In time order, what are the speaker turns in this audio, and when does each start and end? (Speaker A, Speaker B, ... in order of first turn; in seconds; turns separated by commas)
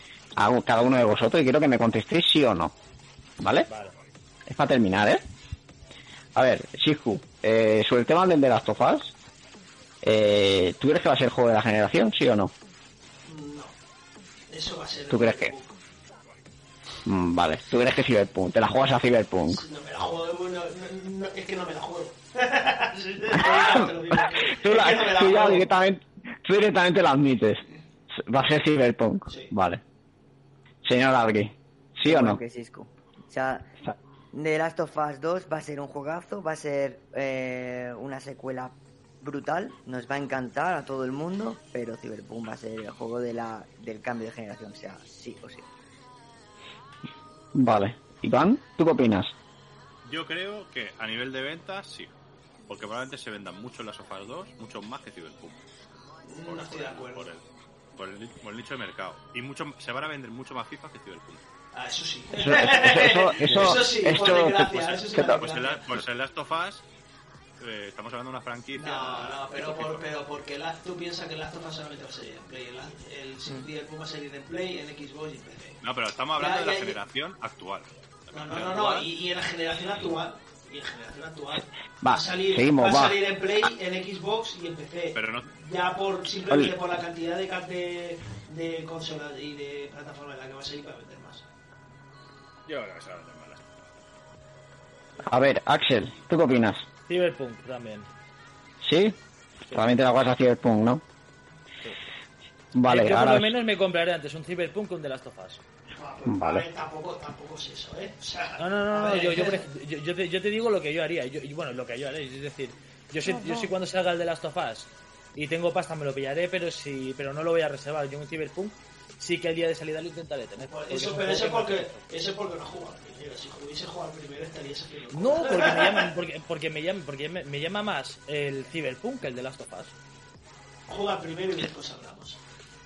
Speaker A: 0.3-2.7, Speaker A: 3.4-3.7, Speaker B: 3.7-3.9, Speaker A: 4.5-5.2, Speaker A: 6.3-9.1, Speaker A: 10.0-12.5, Speaker C: 13.2-13.7, Speaker C: 14.5-15.8, Speaker A: 15.1-15.5, Speaker A: 17.1-19.6, Speaker C: 19.5-25.7, Speaker A: 23.3-29.8, Speaker C: 29.3-29.5, Speaker A: 30.8-32.4, Speaker D: 32.0-33.7, Speaker D: 34.3-45.7, Speaker A: 47.5-49.3, Speaker E: 50.0-52.1, Speaker E: 52.7-55.6, Speaker C: 56.2-57.3, Speaker E: 56.4-57.4, Speaker E: 58.0-61.5, Speaker C: 61.7-65.8, Speaker A: 62.4-65.4, Speaker E: 64.0-66.8, Speaker E: 67.6-70.1, Speaker C: 68.8-75.8, Speaker E: 75.8-79.1, Speaker C: 76.4-77.0, Speaker C: 78.3-91.4, Speaker A: 82.0-83.2, Speaker E: 85.1-85.5, Speaker A: 86.5-86.7, Speaker E: 92.7-93.7, Speaker A: 95.2-96.8, Speaker B: 97.1-98.1, Speaker A: 98.8-99.2, Speaker A: 99.7-101.0, Speaker A: 102.7-103.5, Speaker B: 102.8-105.6, Speaker C: 105.9-109.6, Speaker A: 106.2-106.6, Speaker B: 108.6-122.0, Speaker D: 113.2-113.7, Speaker C: 120.6-126.1, Speaker B: 125.1-129.9, Speaker C: 130.9-132.4